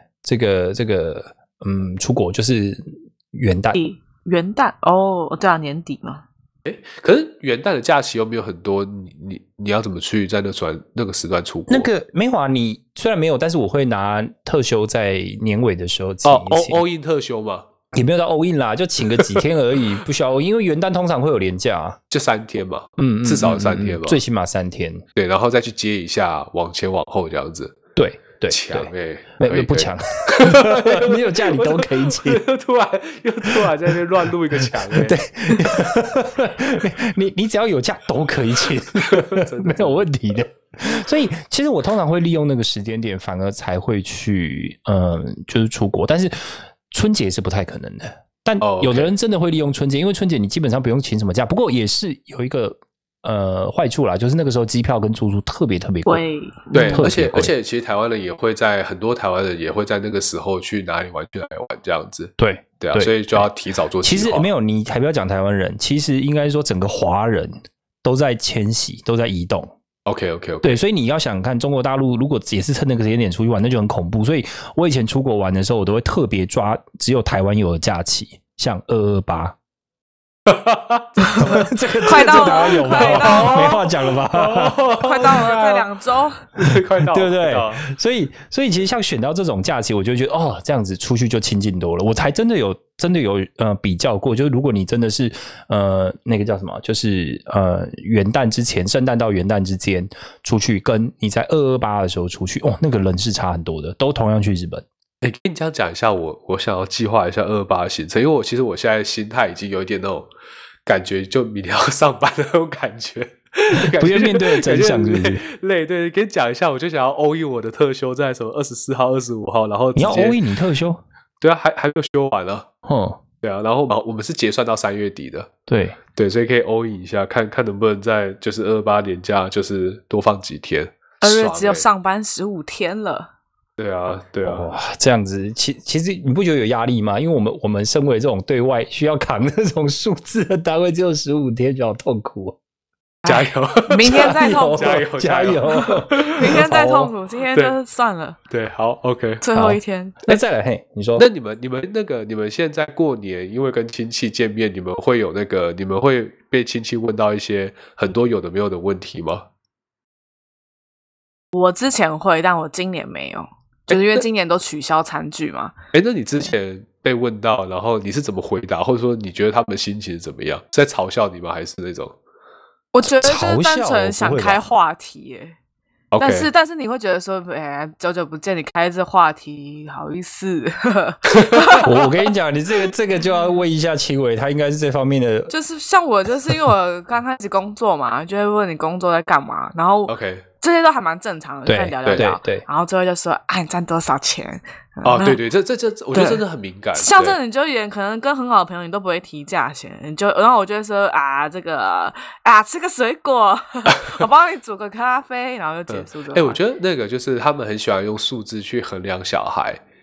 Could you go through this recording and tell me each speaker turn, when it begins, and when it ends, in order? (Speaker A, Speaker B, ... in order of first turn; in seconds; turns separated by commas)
Speaker A: 0.2-3.8, Speaker B: 3.8-6.2, Speaker C: 6.7-11.9, Speaker A: 11.7-16.8, Speaker C: 16.2-17.7, Speaker A: 17.9-22.0, Speaker C: 22.1-24.2, Speaker A: 23.0-25.1, Speaker C: 25.2-27.8, Speaker A: 28.0-32.4, Speaker C: 28.5-35.2, Speaker A: 35.0-56.2, Speaker C: 39.0-40.0, Speaker C: 48.6-49.1, Speaker B: 56.0-57.1, Speaker C: 56.7-64.5, Speaker A: 56.8-57.5, Speaker A: 62.4-63.5, Speaker A: 64.0-69.7, Speaker C: 70.1-70.8, Speaker A: 70.6-79.6, Speaker C: 80.5-85.9, Speaker B: 81.3-83.8, Speaker A: 81.3-84.8, Speaker B: 84.9-86.4, Speaker C: 86.6-87.8, Speaker A: 86.7-104.8, Speaker C: 105.2-110.3, Speaker C: 110.9-120.4, Speaker A: 113.7-115.4, Speaker A: 120.0-121.0, Speaker C: 121.4-122.7, Speaker A: 122.8-123.2, Speaker C: 123.4-125.5, Speaker A: 125.7-126.0, Speaker C: 126.2-131.8, Speaker B: 131.2-133.3, Speaker C: 133.8-134.7, Speaker A: 134.4-142.6, Speaker B: 143.2-145.0, Speaker C: 143.3-146.6, Speaker A: 144.0-147.1, Speaker B: 145.7-148.4, Speaker C: 148.5-149.4, Speaker B: 149.4-150.2, Speaker A: 149.6-151.3, Speaker C: 151.2-159.4, Speaker B: 161.5-165.7, Speaker C: 163.9-164.2, Speaker C: 165.9-172.2, Speaker B: 172.9-175.6, Speaker A: 173.0-174.6, Speaker C: 176.1-176.5, Speaker B: 176.2-181.9, Speaker C: 181.3-182.0, Speaker A: 181.8-185.5, Speaker B: 185.5-195.4, Speaker C: 190.1-190.4, Speaker A: 191.7-192.6, Speaker C: 195.1-197.4, Speaker B: 196.1-196.4, Speaker B: 197.0-206.6, Speaker C: 205.9-209.8